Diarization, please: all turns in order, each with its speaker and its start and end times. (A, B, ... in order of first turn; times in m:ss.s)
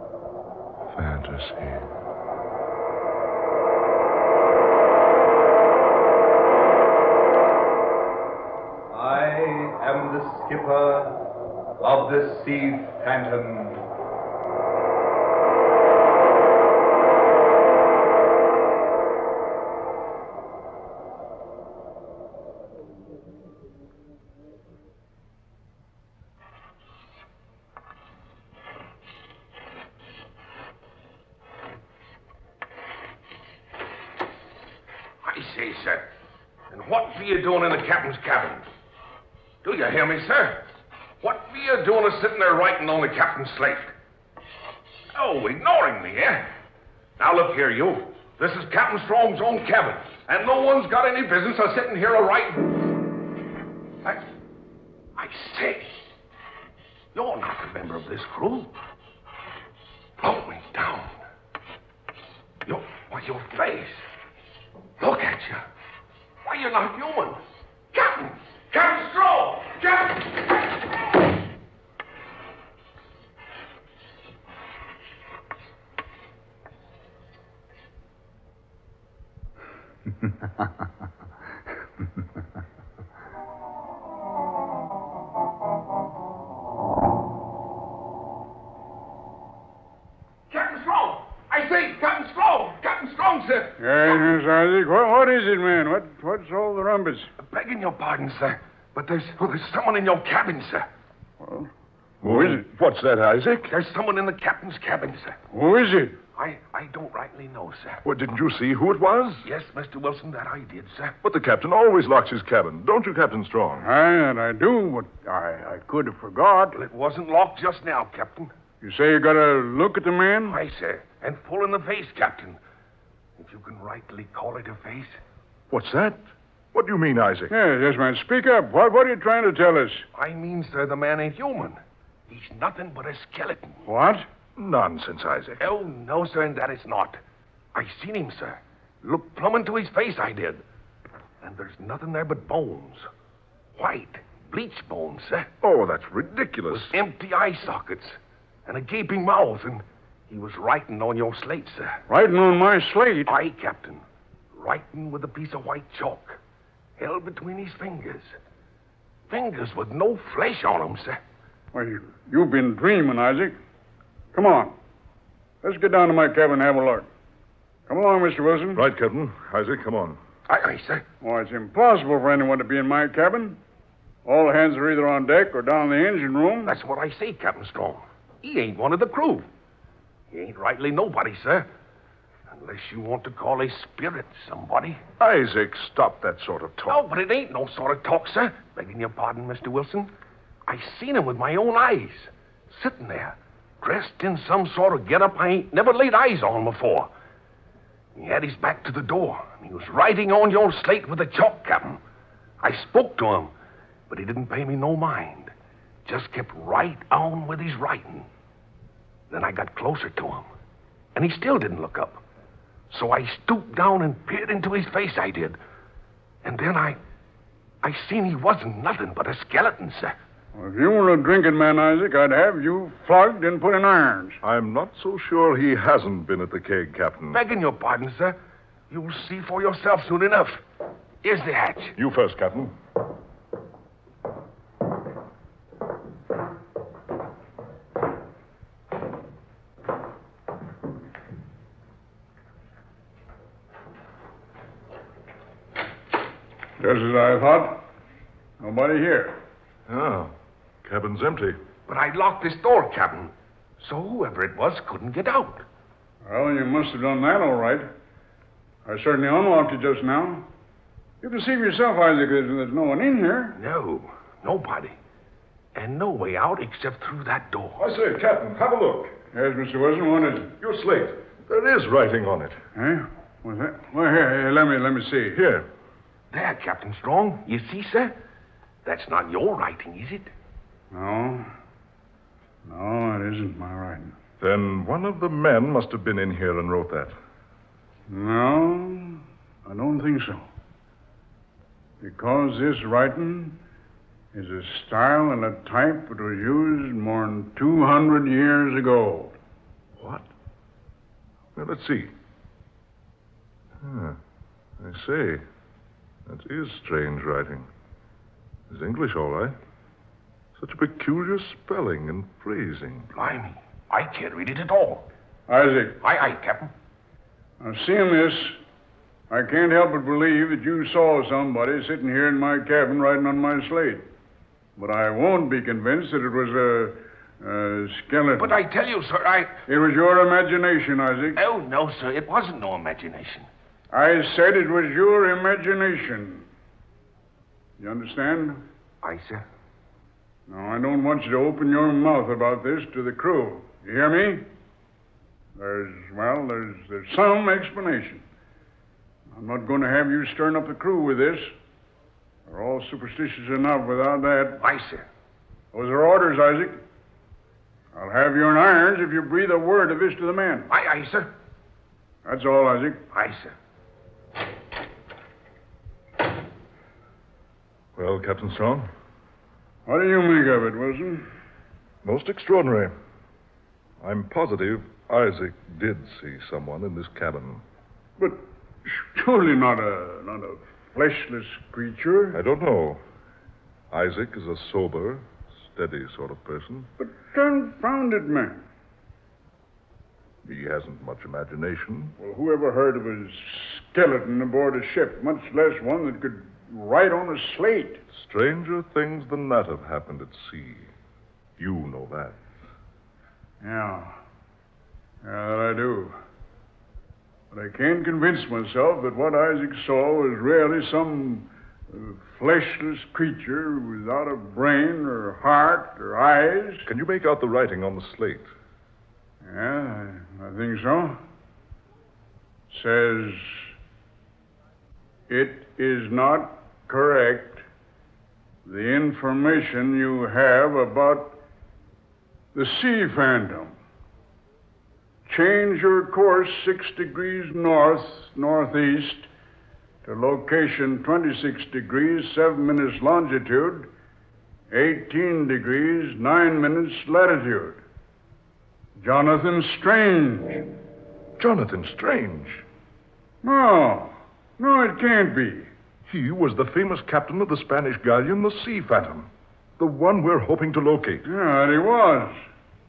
0:00.9-0:01.9 A
0:08.9-0:11.2 B
0:11.8-0:13.8 B
0:35.2-0:36.0 C
0:36.7-0:38.6 C
0:39.6-0:40.6 C
0:41.2-0:43.9 C
0:45.1-0:46.5 C
0:47.2-0:52.8 C
0:55.2-0:55.9 C
0:57.1-0:58.7 C
1:00.2-1:01.1 C
1:02.6-1:04.0 C
1:05.0-1:05.6 C
1:06.4-1:07.4 C
1:07.9-1:10.5 C
1:30.5-1:33.8 C
1:33.8-1:37.3 D
1:37.4-1:40.8 C
1:41.4-1:41.7 D
1:42.2-1:43.7 A
1:42.2-1:42.6 D
1:43.7-1:45.4 C
1:45.5-1:46.2 D
1:46.4-1:48.0 C
1:48.0-1:49.4 A
1:49.4-1:51.1 C
1:51.2-1:53.9 A
1:53.8-1:56.8 D
1:56.7-1:58.5 C
1:58.8-2:00.6 D
2:00.5-2:02.6 C
2:03.4-2:05.2 C
2:05.7-2:06.2 A
2:06.7-2:07.5 A
2:07.5-2:10.0 D
2:10.1-2:11.8 C
2:12.3-2:13.8 C
2:13.8-2:14.2 D
2:14.6-2:15.7 A
2:15.6-2:17.2 C
2:17.7-2:20.6 C
2:21.4-2:23.0 C
2:23.8-2:25.5 C
2:25.6-2:26.9 A
2:26.7-2:32.0 C
2:32.1-2:33.3 D
2:33.2-2:34.0 C
2:34.5-2:36.4 C
2:37.0-2:38.3 C
2:39.3-2:41.2 C
2:41.7-2:43.6 D
2:44.3-2:44.7 D
2:45.6-2:47.1 D
2:47.9-2:48.8 D
2:48.7-2:50.2 A
2:50.5-2:51.0 C
2:51.2-2:53.6 D
2:54.2-2:56.7 D
2:56.6-2:59.5 C
3:00.3-3:01.7 C
3:02.5-3:05.0 C
3:05.2-3:07.0 A
3:06.9-3:10.1 C
3:10.6-3:17.1 C
3:18.1-3:22.0 C
3:22.6-3:23.5 C
3:24.1-3:25.5 C
3:26.0-3:28.3 C
3:29.3-3:30.4 C
3:31.1-3:32.2 C
3:32.9-3:35.6 C
3:36.4-3:37.0 C
3:37.8-3:40.1 C
3:40.5-3:44.4 D
3:44.4-3:47.4 A
3:47.3-3:48.4 C
3:48.9-3:50.6 C
3:51.2-3:51.9 C
3:52.0-3:52.7 A
4:06.8-4:07.8 D
4:08.6-4:09.4 D
4:09.9-4:10.3 A
4:10.8-4:11.6 A
4:11.9-4:15.6 C
4:16.2-4:17.9 D
4:18.8-4:20.5 D
4:21.2-4:23.6 D
4:23.6-4:25.0 C
4:25.7-4:27.8 C
4:27.8-4:29.1 A
4:29.3-4:30.5 D
4:30.6-4:32.6 A
4:32.7-4:35.4 D
4:35.3-4:35.7 A
4:36.3-4:38.1 C
4:38.8-4:40.3 C
4:40.9-4:41.5 D
4:42.6-4:44.1 D
4:44.4-4:47.2 A
4:48.1-4:50.5 D
4:52.0-4:53.6 D
4:54.3-4:59.3 D
5:00.0-5:00.2 A
5:01.5-5:02.1 A
5:03.8-5:04.2 A
5:04.8-5:05.4 A
5:06.3-5:07.7 A
5:08.7-5:09.5 A
5:10.6-5:13.1 A
5:13.1-5:15.1 C
5:15.5-5:16.0 D
5:16.0-5:16.7 C
5:17.6-5:18.6 D
5:19.3-5:24.0 D
5:24.8-5:28.6 D
5:28.4-5:29.5 C
5:29.7-5:31.4 D
5:31.4-5:33.5 C
5:33.9-5:36.4 D
5:37.8-5:38.6 D
5:39.0-5:39.4 C
5:40.5-5:44.4 D
5:45.6-5:48.2 D
5:49.3-5:51.5 D
5:52.5-5:54.6 D
5:54.6-5:55.0 C
5:55.7-5:56.8 D
5:57.9-6:00.7 D
6:00.7-6:01.3 C
6:02.2-6:03.0 D
6:03.1-6:03.5 C
6:08.0-6:08.9 A
6:09.8-6:11.2 D
6:12.0-6:12.9 A
6:14.0-6:17.6 A
6:18.2-6:22.4 D
6:22.3-6:23.0 A
6:23.9-6:26.9 A
6:27.0-6:28.6 D
6:30.4-6:32.2 A
6:32.2-6:38.0 D
6:38.1-6:40.9 A
6:41.6-6:42.4 A
6:43.6-6:44.1 D
6:45.2-6:46.2 D
6:47.5-6:56.9 D
6:56.8-6:58.5 A
6:59.4-7:01.2 D
7:02.7-7:03.7 D
7:05.3-7:07.6 D
7:08.6-7:11.4 D
7:12.5-7:13.7 D
7:15.3-7:19.3 D
7:20.0-7:23.9 D
7:24.7-7:27.8 D
7:29.0-7:30.6 D
7:31.4-7:32.6 A
7:33.4-7:35.7 D
7:36.0-7:41.3 A
7:41.2-7:42.4 D